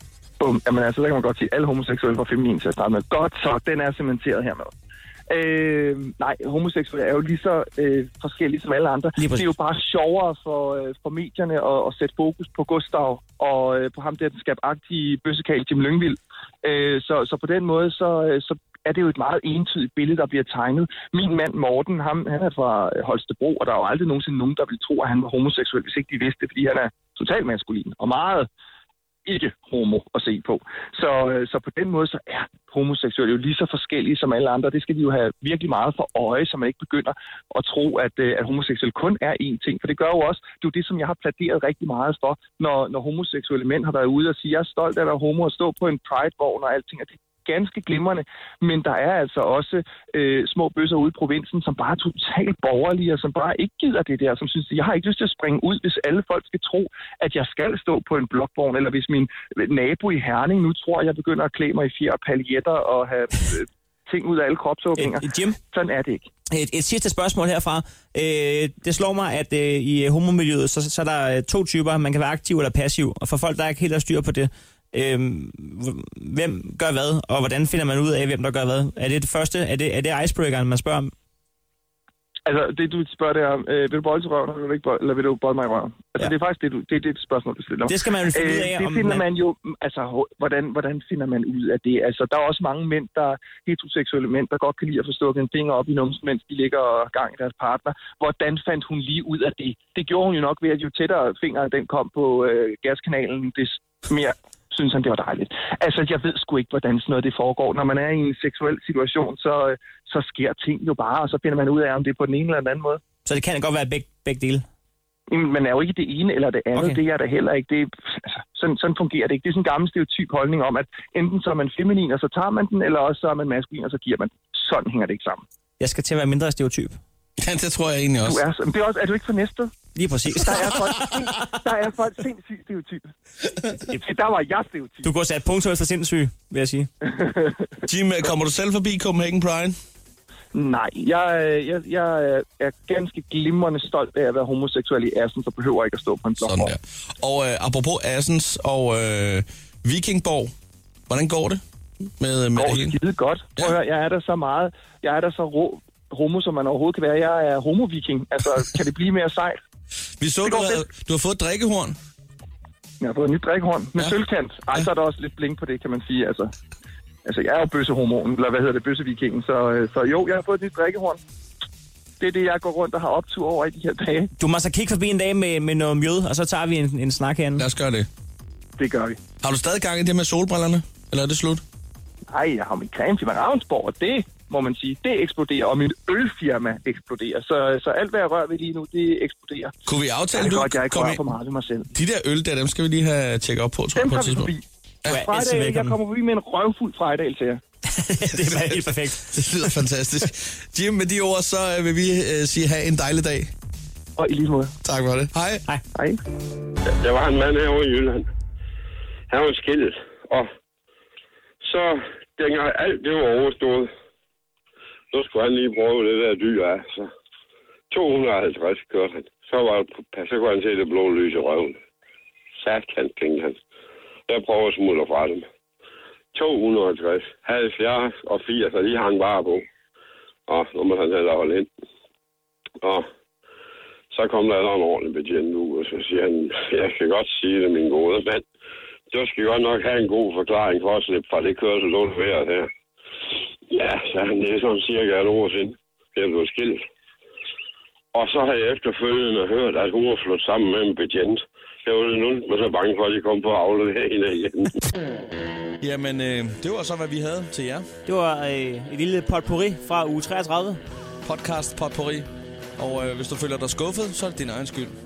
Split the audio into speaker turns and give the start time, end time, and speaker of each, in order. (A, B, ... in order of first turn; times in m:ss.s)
0:00.4-0:04.7 A
0:05.3-0:28.5 A
0:09.2-0:09.5 B
0:29.2-1:06.3 A
1:05.0-1:05.6 B
1:06.5-1:21.1 B
1:22.4-1:53.0 A
1:27.8-1:29.2 B
1:53.2-1:54.6 B
1:55.3-2:05.4 A
1:56.7-1:57.0 B
2:05.8-2:07.0 B
2:07.4-2:08.4 C
2:08.2-2:09.7 A
2:10.0-2:11.5 B
2:10.3-2:13.1 A
2:13.9-2:15.1 A
2:15.0-2:16.9 B
2:17.0-2:17.7 A
2:17.9-2:19.8 C
2:20.5-2:26.7 A
2:26.4-2:30.5 C
2:31.1-2:31.6 C
2:32.2-2:33.0 C
2:32.6-2:39.6 A
2:40.2-2:42.0 C
2:40.4-2:40.8 A
2:43.0-2:46.5 A
2:47.2-2:51.2 A
2:52.2-2:54.3 A
2:54.4-2:57.6 B
2:57.6-2:58.1 C
2:58.8-2:59.2 A
2:59.4-3:01.6 C
3:02.3-3:09.7 A
3:09.9-3:11.2 C
3:10.3-3:11.9 A
3:11.9-3:14.5 C
3:14.0-3:17.6 A
3:15.1-3:16.0 B
3:17.9-3:19.6 B
3:18.4-3:23.5 C
3:24.2-3:24.7 A
3:24.8-3:25.6 C
3:26.9-3:28.3 D
3:29.3-3:30.5 D
3:31.6-3:33.9 D
3:35.1-3:37.1 D
3:37.9-3:41.8 D
3:42.6-3:43.6 D
3:44.3-3:45.4 D
3:46.3-3:49.6 D
3:50.5-3:51.7 D
3:52.8-3:53.1 D
3:54.1-3:58.4 D
3:59.1-4:02.7 D
4:03.7-4:06.8 D
4:08.1-4:14.8 D
4:15.8-4:17.9 C
4:18.0-4:20.8 B
4:21.2-4:25.0 C